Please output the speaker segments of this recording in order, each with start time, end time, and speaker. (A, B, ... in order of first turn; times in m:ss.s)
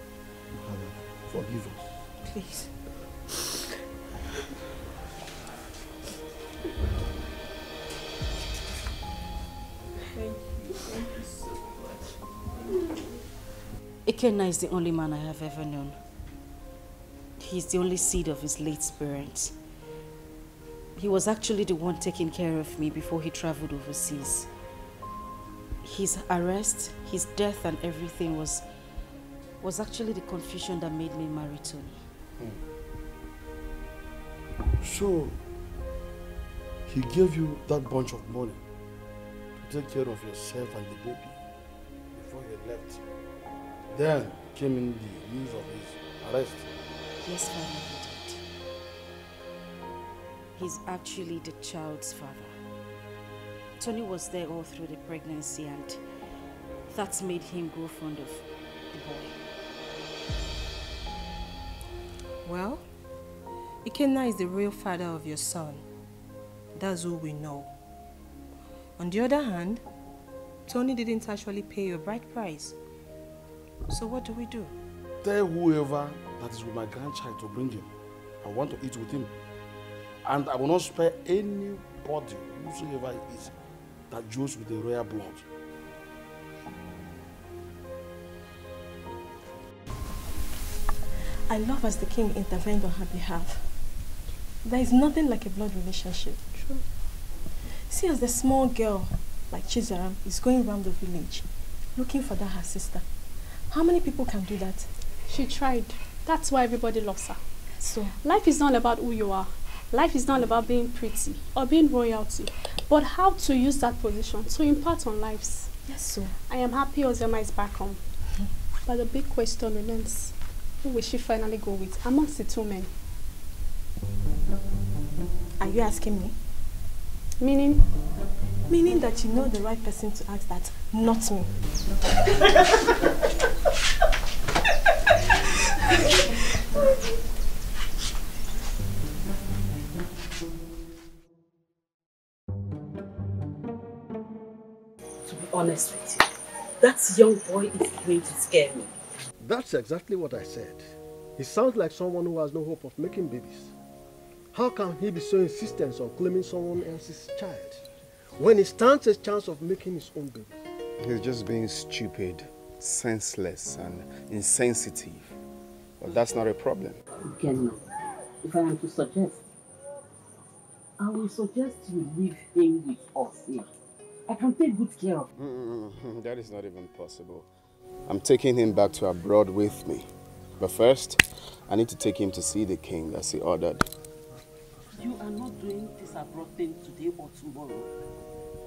0:00.6-0:02.0 A
0:02.2-0:02.7 B
0:14.0-0:16.0 C
0:17.4-0:19.5 C
0:21.0-0:24.5 C
0:25.8-0:28.6 C
0:29.6-0:32.0 C
0:34.8-0:35.4 A
0:36.9-0:38.6 A
0:39.6-0:41.3 A
0:42.1-0:43.0 A
0:43.9-0:46.6 A
0:47.2-0:48.4 C
0:50.6-0:52.5 C
0:53.8-0:56.0 C
0:56.9-0:59.4 C
1:02.4-1:02.9 B
1:03.8-1:05.8 B
1:06.7-1:07.7 B
1:09.0-1:09.8 B
1:10.7-1:12.8 B
1:13.9-1:14.7 B
1:15.2-1:17.9 A
1:18.4-1:19.3 A
1:20.2-1:23.5 A
1:24.1-1:25.4 A
1:31.5-1:33.7 B
1:34.6-1:36.8 B
1:37.9-1:43.0 B
1:43.7-1:44.9 B
1:45.3-1:47.4 D
1:47.8-1:48.2 B
1:48.2-1:55.7 D
1:55.9-1:56.4 B
1:56.5-1:58.0 D
1:58.8-2:02.9 D
2:05.6-2:06.4 B
2:07.4-2:07.8 D
2:08.7-2:11.5 B
2:28.0-2:28.6 E
2:29.4-2:33.7 F
2:34.5-2:37.8 F
2:38.4-2:40.6 F
2:41.0-2:45.3 G
2:46.0-2:47.0 G
2:47.2-2:47.8 E
2:48.4-2:49.4 E
2:51.0-2:53.7 E
2:54.3-2:55.3 E
2:55.4-2:57.5 G
2:58.1-3:00.1 G
3:00.6-3:03.9 G
3:04.9-3:07.9 E